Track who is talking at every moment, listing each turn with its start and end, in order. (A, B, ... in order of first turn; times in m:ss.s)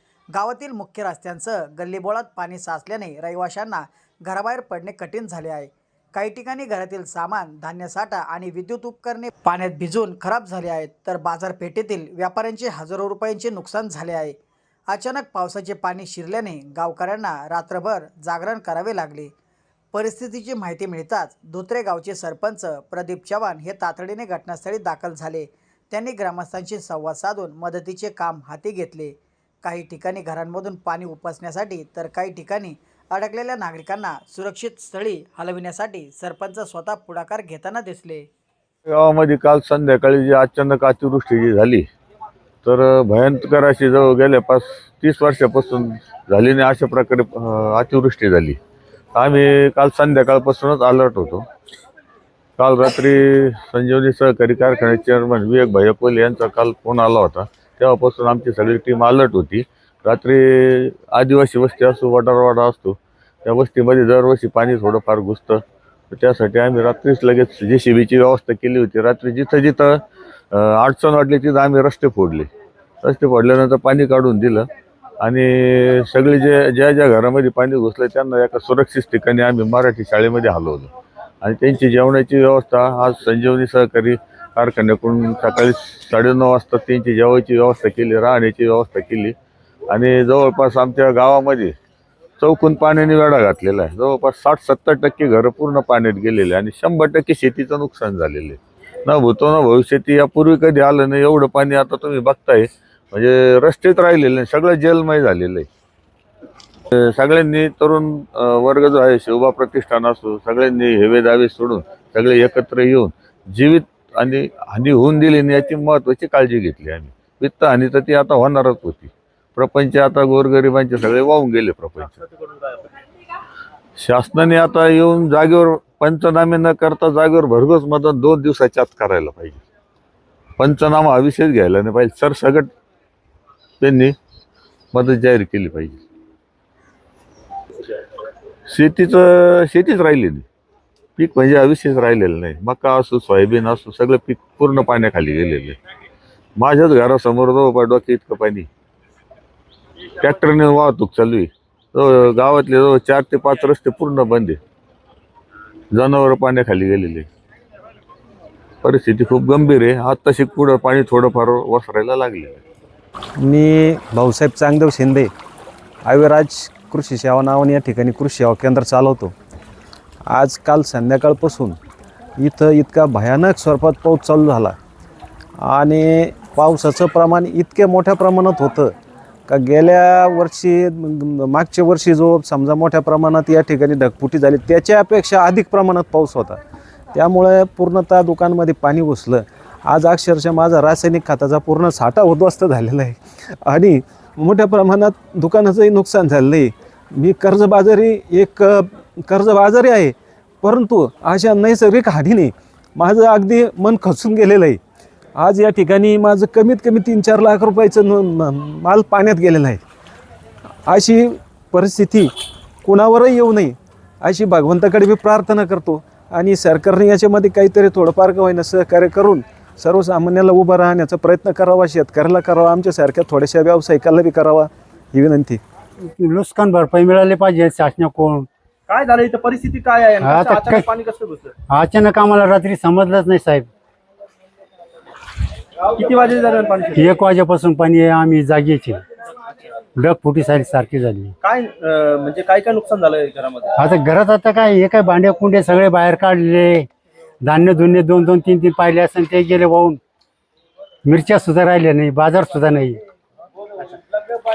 0:00.3-0:14.4 A
0:14.9-0:19.3 A
0:19.9-0:38.3 A
0:38.9-0:41.8 B
0:42.6-0:48.6 B
0:49.1-0:51.4 B
0:52.6-1:05.6 B
1:06.1-1:10.0 B
1:10.5-1:12.5 B
1:13.0-1:14.7 B
1:15.2-1:20.9 B
1:21.4-1:29.3 B
1:29.9-1:31.7 B
1:32.4-1:45.7 B
1:46.9-2:02.2 B
2:04.0-2:09.6 B
2:10.6-2:12.7 B
2:13.8-2:14.1 B
2:14.9-2:16.0 B
2:18.7-2:20.4 B
2:21.2-2:25.8 B
2:26.6-2:28.7 B
2:30.2-2:34.6 B
2:35.9-2:37.2 B
2:38.8-2:42.6 B
2:43.4-2:45.3 C
2:46.0-2:49.3 C
2:50.3-2:51.8 C
2:52.4-2:54.8 C
2:55.6-2:58.9 C
2:59.5-3:06.6 C
3:07.1-3:24.8 C
3:25.4-3:29.8 C
3:30.9-3:32.3 C
3:32.8-3:45.6 C
3:46.0-3:48.5 D
3:48.9-3:51.5 E
3:50.2-3:50.8 D
3:51.7-3:53.7 D
3:55.9-3:57.2 E
3:57.0-3:59.0 D
4:00.0-4:01.3 D
4:01.4-4:03.7 E
4:03.8-4:06.9 D
4:07.4-4:10.0 D
4:11.0-4:13.0 D